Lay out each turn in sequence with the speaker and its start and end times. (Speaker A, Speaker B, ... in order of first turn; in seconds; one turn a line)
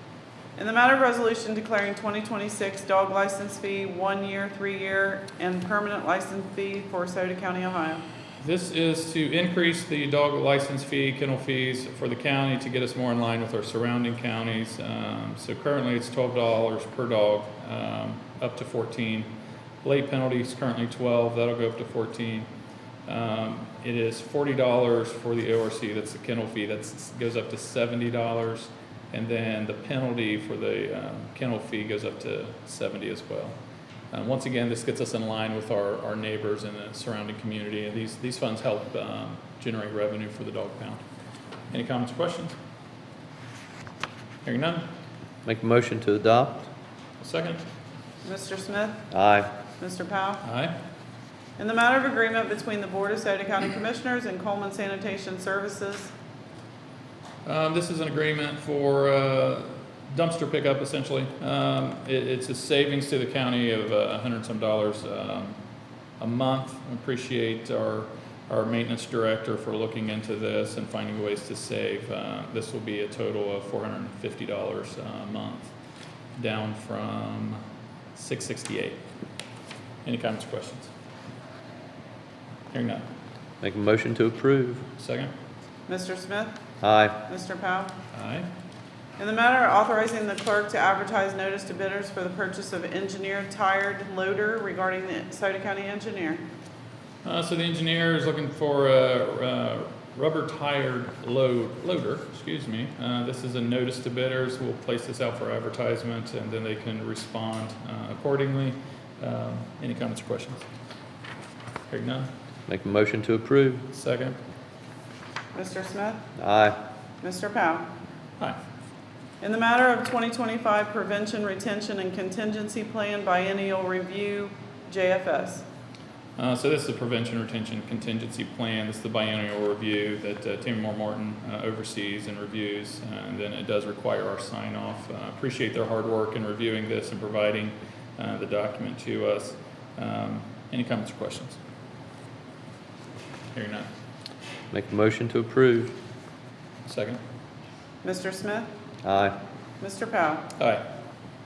Speaker A: 0.6-8.0
Speaker B: 8.4-19.3
Speaker B: 19.8-22.5
Speaker B: 23.1-33.5
Speaker B: 34.1-41.0
Speaker B: 41.7-42.5
Speaker B: 44.4-44.9
Speaker C: 45.4-46.7
Speaker B: 47.2-47.6
Speaker A: 48.2-49.1
Speaker C: 49.1-49.5
Speaker A: 49.8-50.4
Speaker B: 50.4-50.7
Speaker A: 51.6-56.1
Speaker B: 57.5-65.6
Speaker B: 66.2-75.7
Speaker B: 76.4-77.6
Speaker B: 78.1-79.0
Speaker B: 80.0-80.9
Speaker B: 82.7-83.0
Speaker C: 83.6-84.9
Speaker B: 85.0-85.3
Speaker A: 85.9-86.6
Speaker C: 86.8-87.2
Speaker A: 87.2-87.9
Speaker B: 88.1-88.5
Speaker A: 89.2-96.4
Speaker B: 97.2-110.6
Speaker B: 111.9-112.3
Speaker C: 112.7-113.8
Speaker B: 113.9-114.3
Speaker A: 115.5-116.2
Speaker C: 116.4-116.8
Speaker A: 117.2-117.9
Speaker A: 119.4-125.6
Speaker B: 126.4-141.6
Speaker B: 143.5-143.9
Speaker C: 144.7-146.0
Speaker B: 146.8-147.2
Speaker A: 148.0-148.7
Speaker C: 149.0-149.4
Speaker A: 149.8-150.5
Speaker B: 150.6-150.8